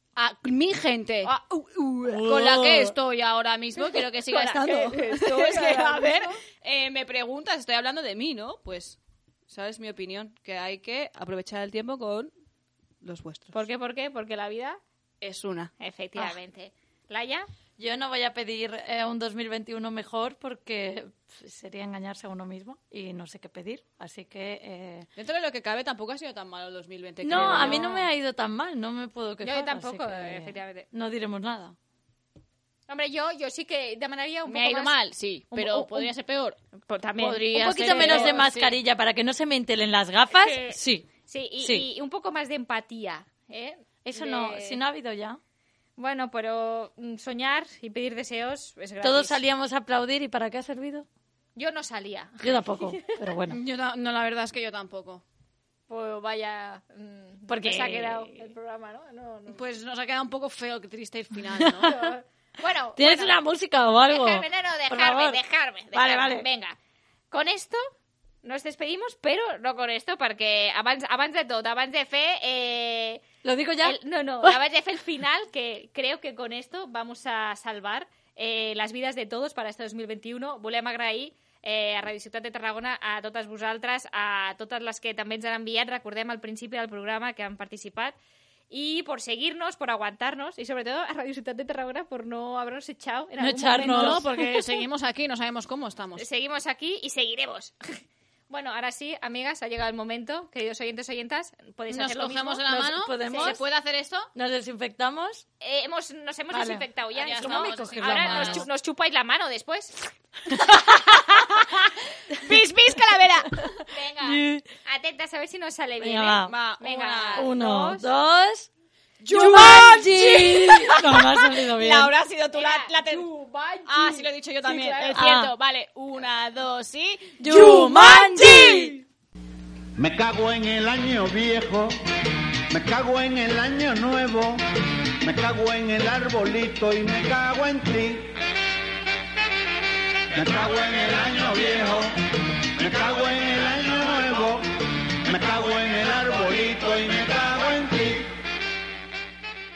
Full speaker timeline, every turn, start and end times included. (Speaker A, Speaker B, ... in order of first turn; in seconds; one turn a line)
Speaker A: 0.2-1.3
Speaker B: 1.3-2.2
Speaker C: 2.1-2.9
Speaker A: 2.2-9.0
Speaker B: 4.0-6.3
Speaker A: 9.5-12.3
Speaker A: 13.0-13.6
Speaker B: 13.5-14.8
Speaker A: 15.2-15.7
Speaker B: 15.8-17.5
Speaker C: 17.8-25.1
Speaker A: 25.2-27.9
Speaker C: 27.2-31.8
Speaker B: 27.3-28.1
Speaker B: 29.4-30.9
Speaker B: 32.9-34.9
Speaker A: 34.5-36.6
Speaker B: 35.5-36.1
Speaker B: 36.9-38.4
Speaker A: 37.2-38.8
Speaker C: 37.5-41.1
Speaker B: 40.3-44.8
Speaker C: 41.6-41.9
Speaker C: 44.0-45.4
Speaker B: 46.0-49.4
Speaker C: 49.0-51.1
Speaker B: 51.6-52.6
Speaker C: 52.4-53.6
Speaker A: 53.5-55.2
Speaker B: 55.9-59.6
Speaker C: 57.5-58.3
Speaker A: 59.5-62.0
Speaker C: 61.6-62.0
Speaker B: 61.8-63.4
Speaker C: 63.0-65.4
Speaker B: 64.1-66.8
Speaker C: 65.9-66.5
Speaker B: 67.3-67.8
Speaker B: 68.4-73.2
Speaker C: 73.4-74.6
Speaker B: 73.8-88.2
Speaker B: 88.7-94.3
Speaker C: 93.4-94.3
Speaker A: 93.8-96.3
Speaker B: 96.2-97.8
Speaker B: 98.5-102.6
Speaker A: 101.9-104.3
Speaker C: 102.7-103.6
Speaker C: 104.3-105.5
Speaker B: 105.6-110.0
Speaker C: 106.5-108.7
Speaker A: 107.2-108.7
Speaker A: 112.4-113.7
Speaker B: 113.9-118.1
Speaker C: 114.2-114.7
Speaker C: 116.0-116.5
Speaker A: 116.5-117.5
Speaker C: 117.4-118.7
Speaker A: 119.2-123.3
Speaker C: 119.3-122.1
Speaker B: 122.5-125.2
Speaker A: 123.9-128.9
Speaker C: 125.1-125.5
Speaker C: 127.4-129.0
Speaker D: 130.0-132.0
Speaker D: 132.7-134.6
Speaker D: 135.2-138.3
Speaker D: 140.3-142.1
Speaker D: 142.8-144.6
Speaker D: 145.3-148.2